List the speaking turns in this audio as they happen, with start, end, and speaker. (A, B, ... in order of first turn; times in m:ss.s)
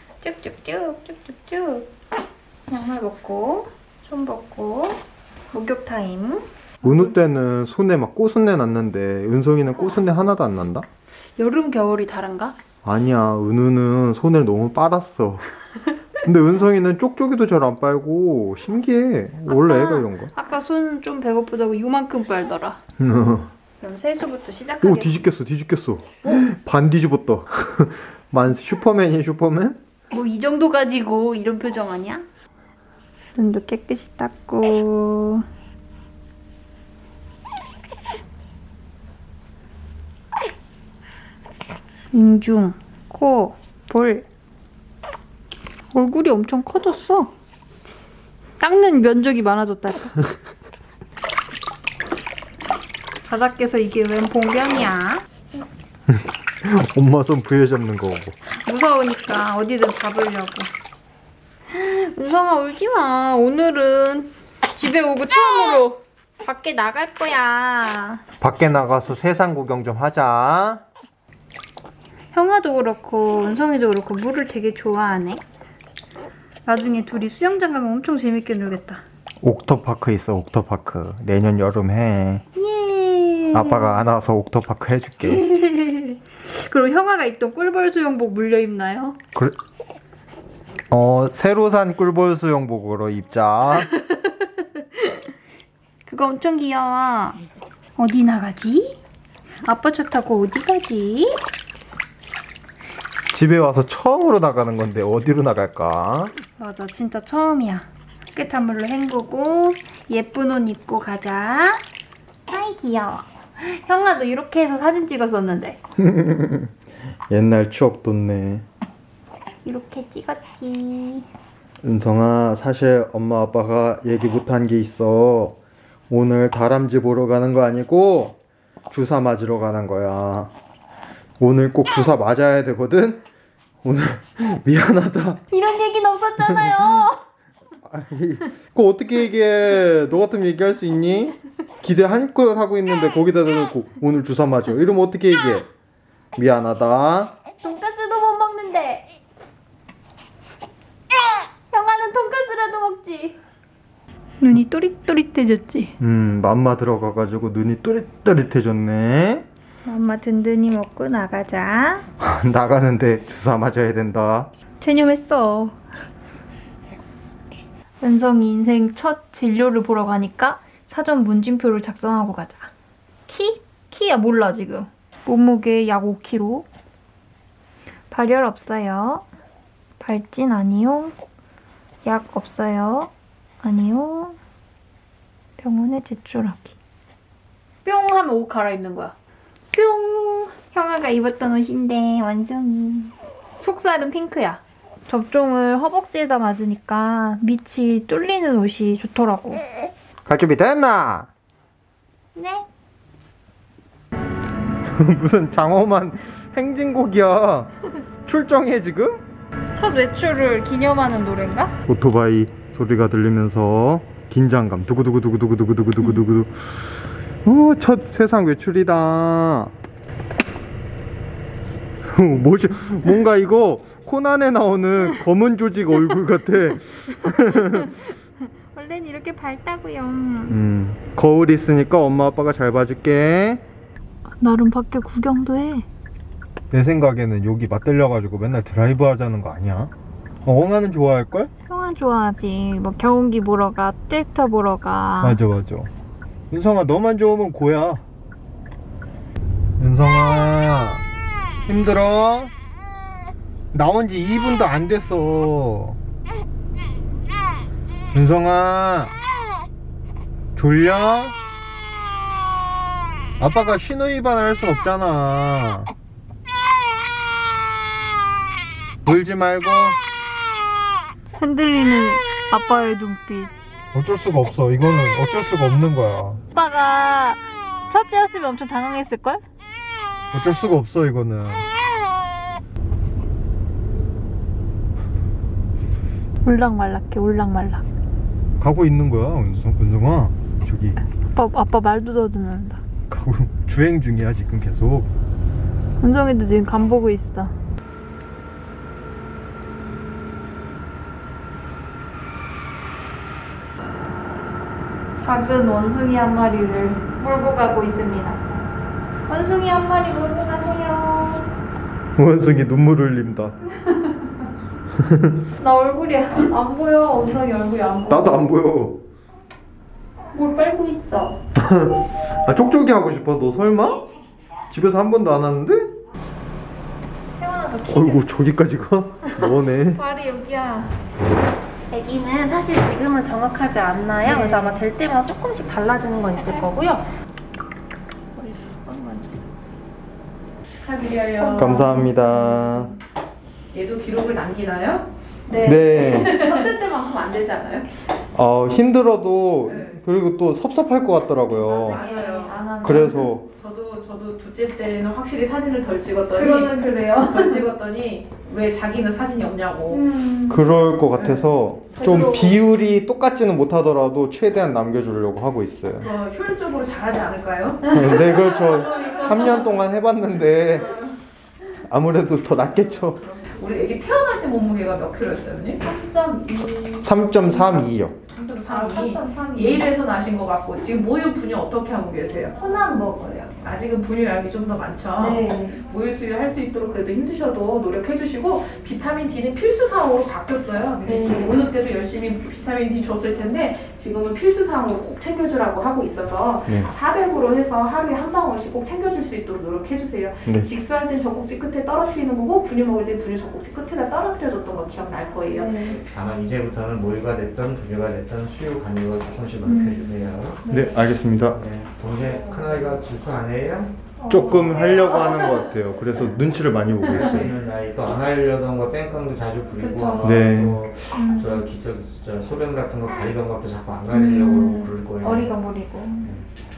0:00.2-0:01.9 A
0:02.7-0:07.1 A
0:06.8-0:10.9 B
0:11.4-0:12.5 A
0:12.8-0:15.5 B
0:16.2-0:20.3 B
0:19.4-0:22.8 A
0:23.0-0:23.5 B
0:23.8-0:25.1 A
0:24.8-0:29.8 B
0:30.1-0:32.2 A
0:33.3-0:35.4 A
0:42.1-0:44.2 A
0:45.9-0:47.3 A
0:48.6-0:50.1 A
0:53.2-0:55.2 A
0:56.1-0:58.3 B
0:58.6-1:00.7 A
1:01.7-1:08.2 A
1:08.4-1:10.8 B
1:12.3-1:15.4 A
1:16.6-1:19.0 A
1:19.4-1:22.4 B
1:22.6-1:23.9 A
1:23.5-1:25.4 B
1:25.2-1:29.2 A
1:30.9-1:33.9 B
1:33.8-1:34.2 A
1:36.1-1:37.4 A
1:38.0-1:39.0 A
1:39.6-1:41.4 A
1:43.3-1:46.3 B
1:46.6-1:51.8 A
1:52.5-1:55.8 A
1:56.0-1:56.7 B
1:57.3-1:58.6 B
1:59.6-2:01.3 A
2:01.8-2:05.6 B
2:06.1-2:08.4 B
2:08.9-2:10.5 B
2:11.4-2:13.2 B
2:13.8-2:15.4 B
2:15.5-2:17.2 A
2:16.4-2:16.7 B
2:17.8-2:25.7 B
2:26.4-2:27.3 B
2:27.6-2:29.0 A
2:31.7-2:33.4 A
2:34.4-2:35.9 A
2:36.0-2:39.4 B
2:39.8-2:42.0 A
2:42.2-2:44.5 B
2:44.8-2:45.8 A
2:48.0-2:52.7 A
2:53.3-2:56.7 A
2:58.1-2:59.2 A
3:00.0-3:01.1 A
3:02.0-3:03.1 A
3:03.6-3:04.4 A
3:05.6-3:06.7 A
3:07.8-3:09.1 A
3:09.7-3:19.6 A
3:20.3-3:21.3 B
3:22.3-3:22.6 A
3:24.9-3:27.7 B
3:28.2-3:29.2 B
3:29.7-3:31.7 A
3:31.8-3:36.5 B
3:37.4-3:39.7 B
3:42.0-3:47.9 B
3:47.2-3:48.1 A
3:48.7-3:50.6 A
3:50.5-3:53.6 B
3:54.4-3:55.8 A
3:56.7-3:59.9 B
4:00.4-4:01.5 B
4:01.7-4:05.4 A
4:05.2-4:05.9 B
4:06.5-4:08.0 B
4:09.8-4:11.0 B
4:11.7-4:12.5 B
4:13.7-4:16.0 B
4:18.1-4:19.2 B
4:20.6-4:21.3 B
4:23.4-4:25.9 B
4:29.0-4:30.0 B
4:31.4-4:33.5 A
4:33.9-4:36.4 B
4:36.5-4:39.4 A
4:40.3-4:41.6 B
4:46.4-4:47.8 A
4:48.6-4:51.0 B
4:51.3-4:52.8 A
4:53.1-4:55.1 B
4:56.0-4:57.5 A
5:05.2-5:08.4 A
5:09.3-5:11.5 A
5:12.2-5:13.6 B
5:15.0-5:15.3 B
5:15.6-5:18.4 A
5:18.1-5:19.0 B
5:20.3-5:21.4 A
5:21.6-5:24.0 B
5:24.7-5:25.9 B
5:27.4-5:28.2 A
5:27.9-5:30.0 B
5:29.2-5:31.0 A
5:31.9-5:32.5 A
5:31.9-5:37.1 C
5:34.2-5:34.8 A
5:38.4-5:39.4 A
5:40.6-5:42.1 C
5:41.4-5:42.9 A
5:41.4-5:42.9 B
5:43.7-5:45.0 C
5:45.5-5:46.7 A
5:45.6-5:46.4 B
5:46.0-5:47.9 C
5:48.3-5:52.0 B
5:49.6-5:50.0 C
5:51.5-5:53.3 A
5:51.8-5:52.7 C
5:52.8-5:53.5 B
5:53.5-6:00.0 C
5:56.3-5:57.6 A
5:59.9-6:00.8 A
6:00.5-6:06.1 B
6:01.2-6:01.4 C
6:02.0-6:02.6 A
6:06.0-6:09.7 C
6:07.9-6:11.0 B
6:11.8-6:13.2 B
6:13.3-6:15.8 C
6:15.8-6:17.3 A
6:17.0-6:18.1 B
6:18.2-6:22.5 C
6:18.7-6:19.8 A
6:22.6-6:23.6 A
6:23.6-6:45.9 C
6:25.2-6:25.8 A
6:31.0-6:31.6 A
6:45.5-6:46.0 A
6:45.9-6:50.6 D
6:49.6-6:51.0 A
6:50.7-6:51.6 B
6:51.5-6:54.0 D
6:54.2-6:55.6 A
6:54.3-6:57.5 B
6:57.0-7:05.6 D
6:59.8-7:00.3 A
7:00.2-7:00.8 B
7:01.1-7:01.6 A
7:04.1-7:06.3 A
7:06.2-7:06.5 D